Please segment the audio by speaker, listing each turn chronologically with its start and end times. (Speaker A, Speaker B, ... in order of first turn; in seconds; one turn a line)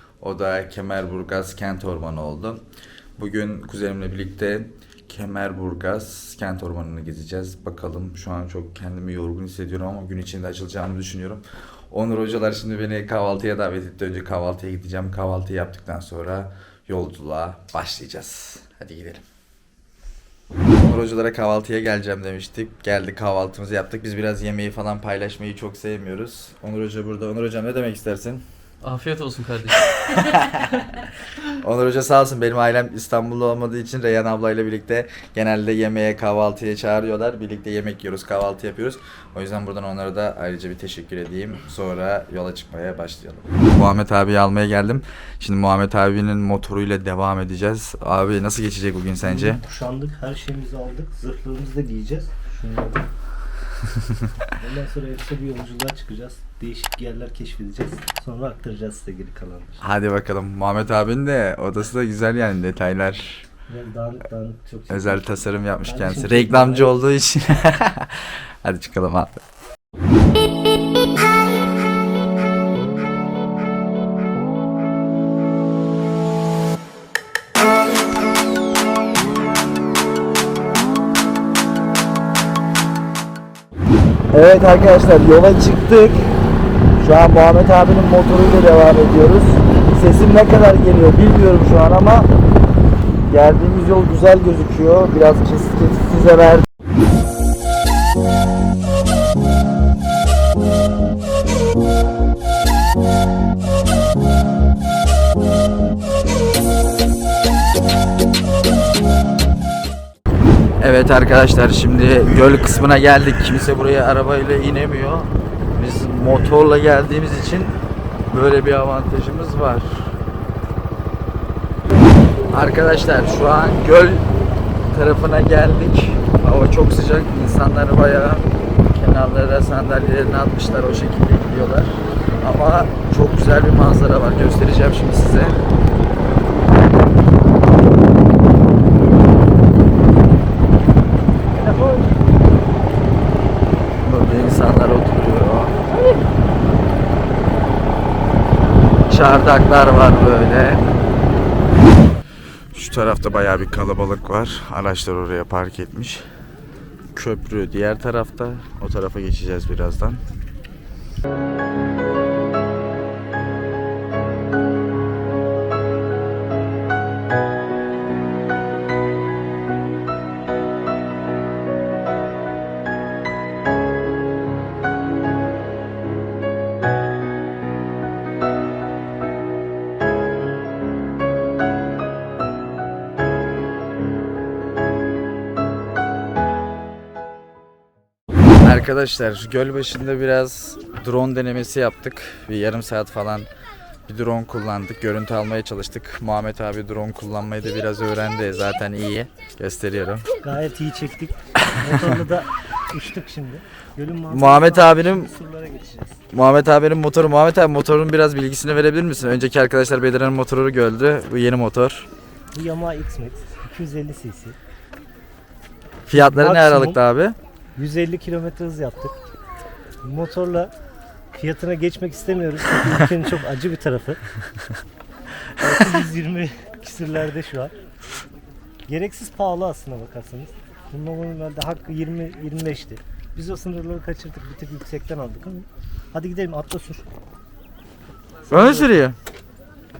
Speaker A: 0.2-2.6
Speaker A: 3.2-19.2
Speaker A: 20.8-49.6
Speaker B: 49.2-53.1
Speaker A: 54.1-54.4
Speaker B: 54.6-59.8
Speaker A: 59.8-63.5
Speaker B: 63.7-65.3
Speaker A: 64.9-69.4
Speaker B: 65.8-67.0
Speaker A: 84.3-86.3
Speaker A: 87.0-92.3
Speaker A: 93.3-96.7
Speaker A: 110.8-117.8
Speaker A: 118.3-120.1
Speaker A: 122.5-124.3
Speaker A: 124.9-135.6
Speaker B: 141.5-142.2
Speaker A: 144.0-145.8
Speaker A: 149.1-150.9
Speaker A: 152.7-156.2
Speaker A: 157.1-160.2
Speaker A: 188.5-193.5
Speaker A: 194.1-200.3
Speaker B: 200.4-206.2
Speaker A: 201.6-202.1
Speaker A: 204.3-205.3
Speaker A: 206.3-212.1
Speaker B: 212.5-214.6
Speaker A: 216.1-217.3
Speaker B: 216.1-217.0
Speaker B: 217.8-219.2
Speaker B: 220.0-220.7
Speaker B: 221.3-224.2
Speaker B: 225.6-227.7
Speaker B: 228.9-237.0
Speaker B: 238.5-238.9
Speaker A: 238.5-239.2